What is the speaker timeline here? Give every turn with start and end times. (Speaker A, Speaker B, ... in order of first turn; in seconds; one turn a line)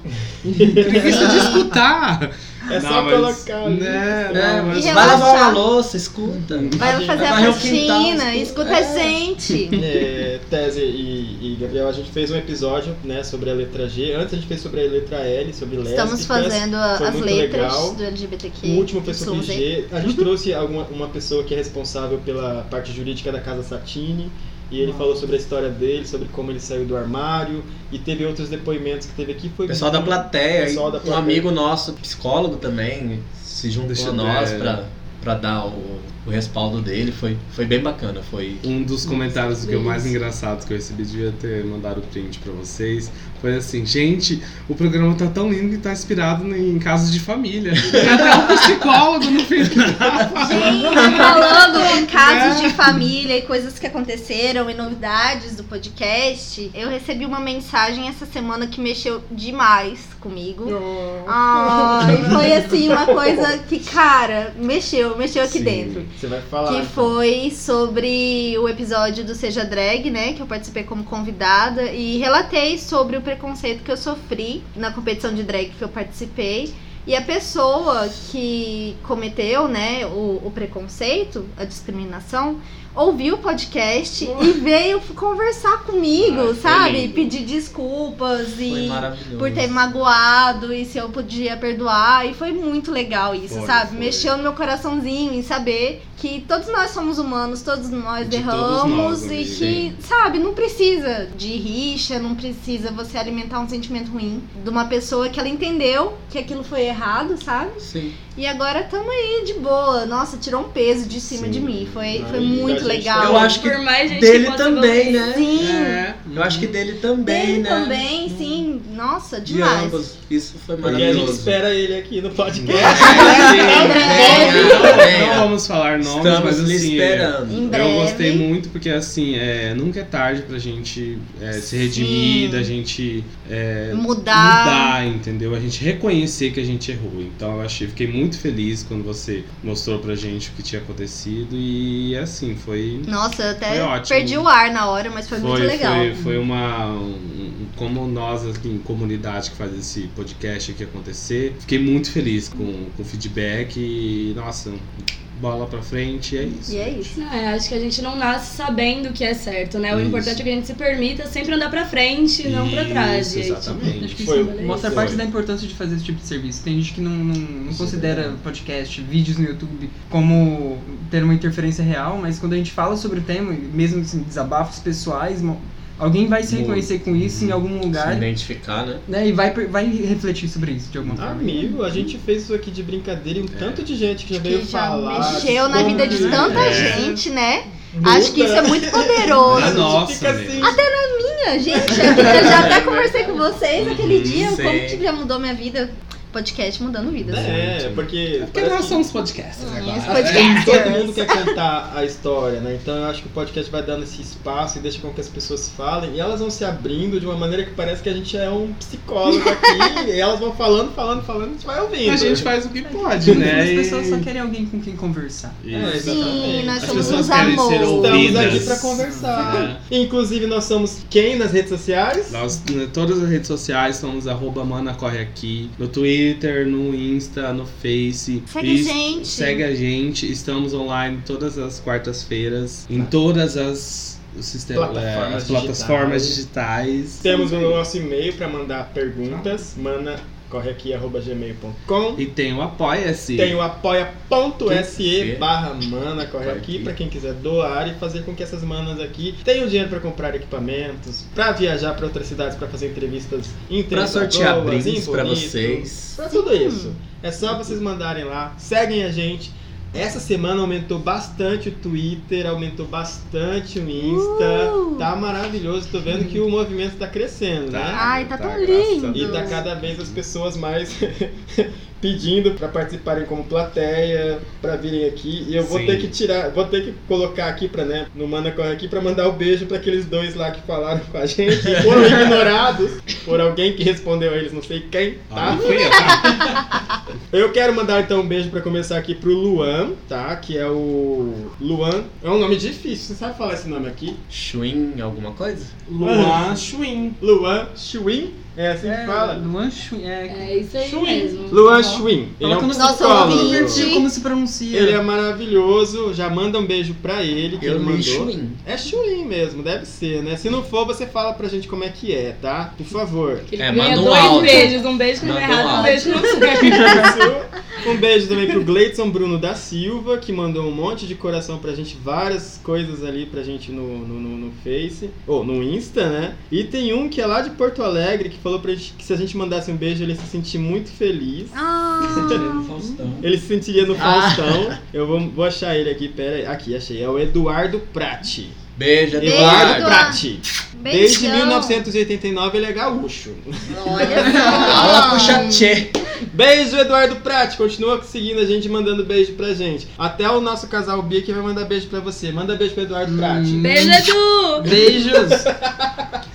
Speaker A: 0.5-1.6
Speaker B: 0.5-1.5
Speaker C: 0.9-5.4
Speaker B: 2.7-4.6
Speaker D: 4.3-9.2
Speaker E: 4.7-5.6
Speaker C: 6.5-6.8
Speaker B: 6.8-7.7
Speaker E: 6.8-9.8
Speaker B: 9.8-18.0
Speaker E: 15.9-19.7
Speaker B: 18.6-31.5
Speaker A: 24.8-25.2
Speaker D: 29.7-38.6
Speaker C: 33.9-34.8
Speaker C: 38.6-51.5
Speaker F: 39.6-40.2
Speaker D: 47.9-48.5
Speaker E: 50.4-66.1
Speaker F: 50.9-52.1
Speaker C: 52.1-53.0
Speaker B: 60.7-63.4
Speaker D: 65.5-66.1
Speaker B: 66.1-67.2
Speaker E: 66.7-113.6
Speaker C: 86.2-87.4
Speaker D: 88.7-89.7
Speaker C: 93.5-94.3
Speaker C: 98.2-99.9
Speaker D: 107.8-108.2
Speaker D: 111.3-115.8
Speaker B: 112.1-113.6
Speaker F: 113.5-115.3
Speaker E: 115.1-116.1
Speaker C: 115.6-116.2
Speaker A: 116.2-116.7
Speaker D: 116.3-118.4
Speaker E: 117.2-120.0
Speaker D: 119.5-121.6
Speaker B: 120.8-125.2
Speaker C: 120.9-121.2
Speaker C: 122.5-143.1
Speaker D: 122.8-127.7
Speaker E: 123.0-125.1
Speaker E: 127.5-128.5
Speaker E: 131.6-132.7
Speaker E: 133.9-135.0
Speaker E: 143.1-146.2
Speaker C: 143.7-144.5
Speaker C: 145.3-157.1
Speaker E: 156.7-157.2
Speaker F: 157.2-165.1
Speaker D: 159.9-160.4
Speaker C: 162.4-164.3
Speaker A: 164.0-178.3
Speaker B: 164.2-165.2
Speaker D: 167.7-168.3
Speaker C: 176.5-177.7
Speaker D: 177.9-179.0
Speaker A: 179.1-181.7
Speaker B: 181.2-187.0
Speaker C: 183.5-183.8
Speaker E: 184.4-190.0
Speaker A: 185.2-186.6
Speaker C: 186.1-187.2
Speaker D: 186.5-186.9
Speaker B: 187.9-190.8
Speaker C: 189.5-190.8
Speaker E: 190.6-197.5
Speaker B: 191.7-192.8
Speaker D: 192.1-195.0
Speaker C: 193.8-194.6
Speaker D: 197.3-198.1
Speaker B: 197.3-199.0
Speaker C: 198.4-200.9
Speaker E: 199.6-201.5
Speaker B: 200.1-212.5
Speaker E: 209.3-210.0
Speaker C: 212.0-214.3
Speaker A: 212.8-216.1
Speaker C: 215.6-219.8
Speaker B: 215.7-222.4
Speaker E: 216.0-218.7
Speaker A: 218.9-219.7
Speaker C: 222.3-237.5
Speaker E: 228.5-229.7
Speaker B: 234.7-236.4
Speaker B: 237.2-242.2
Speaker E: 237.3-237.7
Speaker C: 239.3-239.6
Speaker C: 242.2-243.6
Speaker B: 243.3-268.0
Speaker D: 244.7-245.5
Speaker D: 246.4-246.9
Speaker D: 253.9-256.2
Speaker E: 256.3-257.0
Speaker E: 264.0-265.1
Speaker C: 267.7-270.2
Speaker E: 267.9-269.6
Speaker B: 269.1-286.4
Speaker C: 275.6-276.1
Speaker C: 285.3-286.7
Speaker E: 285.4-286.5
Speaker B: 287.3-294.2
Speaker D: 294.3-295.7
Speaker C: 295.9-297.2
Speaker B: 296.0-296.6
Speaker B: 297.2-299.4
Speaker A: 298.8-305.0
Speaker F: 300.3-301.8
Speaker B: 301.5-303.9
Speaker E: 302.7-304.1
Speaker B: 304.7-314.1
Speaker D: 307.6-308.6
Speaker F: 313.5-317.2
Speaker D: 313.6-316.0
Speaker E: 314.4-314.7
Speaker B: 316.4-332.4
Speaker E: 331.5-332.7
Speaker D: 332.1-333.3
Speaker B: 333.2-338.6
Speaker D: 334.0-334.8
Speaker D: 338.8-340.1
Speaker B: 339.2-345.4
Speaker E: 339.2-340.2
Speaker E: 340.8-341.9
Speaker E: 343.7-345.7
Speaker A: 344.2-344.8
Speaker D: 344.6-345.9
Speaker B: 346.3-354.1
Speaker A: 353.1-354.1
Speaker F: 353.6-354.7
Speaker A: 354.6-355.5
Speaker B: 354.9-356.1